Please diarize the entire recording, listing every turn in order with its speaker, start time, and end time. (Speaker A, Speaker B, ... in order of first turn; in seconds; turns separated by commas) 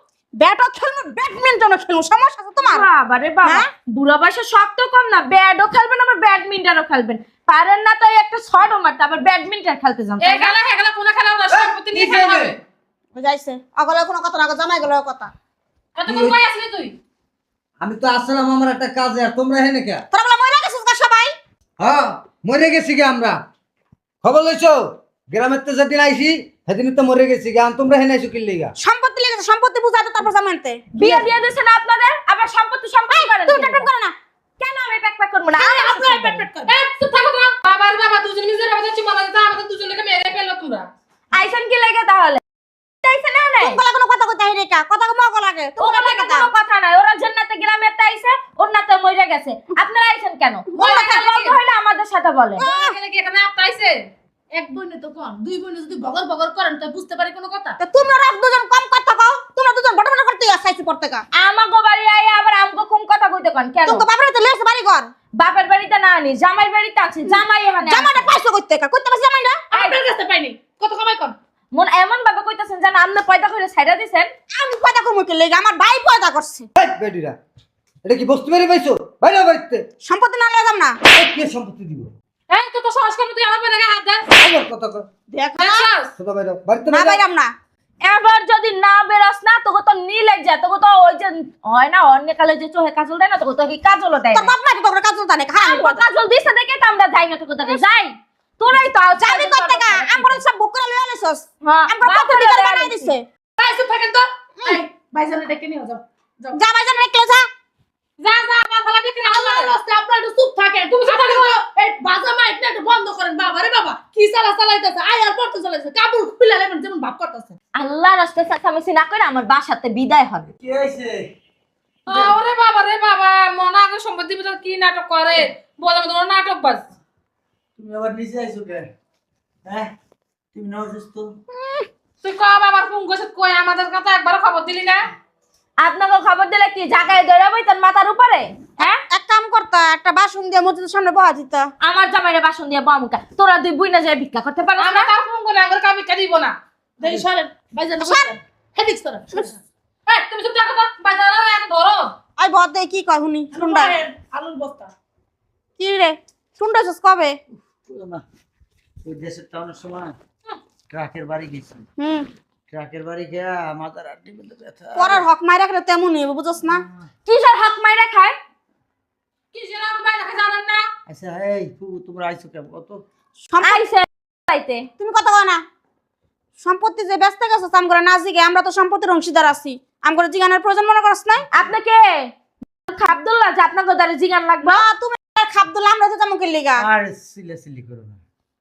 Speaker A: 0.4-2.9, Speaker B: 2.6-10.6, Speaker A: 3.4-3.7, Speaker C: 10.2-12.6, Speaker D: 11.5-12.5, Speaker A: 13.2-15.3, Speaker C: 16.0-16.9, Speaker D: 16.1-16.4, Speaker D: 17.8-20.1, Speaker A: 20.1-21.3, Speaker D: 21.8-23.4, Speaker D: 24.2-28.7, Speaker A: 28.8-31.2, Speaker B: 30.9-33.9, Speaker A: 33.1-34.1, Speaker B: 34.6-36.5, Speaker E: 35.6-36.7, Speaker C: 36.7-40.9, Speaker B: 41.3-42.4, Speaker B: 43.0-43.8, Speaker A: 43.6-46.5, Speaker B: 45.8-52.6, Speaker A: 50.7-51.5, Speaker C: 50.8-51.5, Speaker C: 52.6-54.0, Speaker A: 52.6-53.0, Speaker E: 54.6-57.8, Speaker A: 57.8-61.2, Speaker B: 61.3-64.0, Speaker A: 63.8-65.1, Speaker B: 65.4-68.3, Speaker A: 67.3-69.6, Speaker E: 69.7-71.3, Speaker B: 71.7-74.3, Speaker A: 74.5-76.7, Speaker D: 76.8-77.3, Speaker D: 78.0-79.8, Speaker A: 80.0-81.0, Speaker D: 81.1-82.1, Speaker C: 82.5-84.3, Speaker D: 84.4-85.1, Speaker A: 85.3-85.9, Speaker C: 85.6-86.1, Speaker D: 86.2-87.2, Speaker A: 86.9-87.5, Speaker B: 88.0-94.5, Speaker A: 94.3-96.1, Speaker B: 95.6-100.4, Speaker A: 97.6-97.9, Speaker A: 99.2-103.3, Speaker B: 101.6-103.1, Speaker C: 103.6-104.2, Speaker E: 103.6-104.0, Speaker E: 104.6-106.6, Speaker A: 106.5-107.5, Speaker C: 108.2-109.8, Speaker E: 109.2-117.6, Speaker C: 111.0-111.5, Speaker B: 117.8-120.5, Speaker D: 120.6-121.3, Speaker C: 122.1-126.8, Speaker D: 127.8-128.9, Speaker D: 129.7-129.9, Speaker D: 130.5-131.3, Speaker A: 131.5-131.8, Speaker C: 132.2-135.1, Speaker B: 135.8-139.0, Speaker A: 138.8-141.7, Speaker B: 141.8-145.1, Speaker C: 144.8-146.6, Speaker E: 147.0-149.6, Speaker A: 148.0-148.3, Speaker C: 150.1-152.1, Speaker A: 152.4-154.0, Speaker E: 153.5-154.9, Speaker A: 155.8-157.4, Speaker D: 157.5-158.2, Speaker D: 159.0-160.2, Speaker D: 160.9-161.8, Speaker A: 162.0-162.3, Speaker D: 162.7-165.2, Speaker A: 164.9-166.8, Speaker D: 166.7-167.1, Speaker B: 167.3-168.3, Speaker C: 169.5-170.8, Speaker D: 171.1-173.0, Speaker A: 173.5-173.8, Speaker B: 173.6-174.9, Speaker A: 175.0-175.6, Speaker A: 176.6-181.5, Speaker B: 181.5-182.3, Speaker B: 182.9-184.9, Speaker A: 184.6-186.8, Speaker D: 186.8-188.2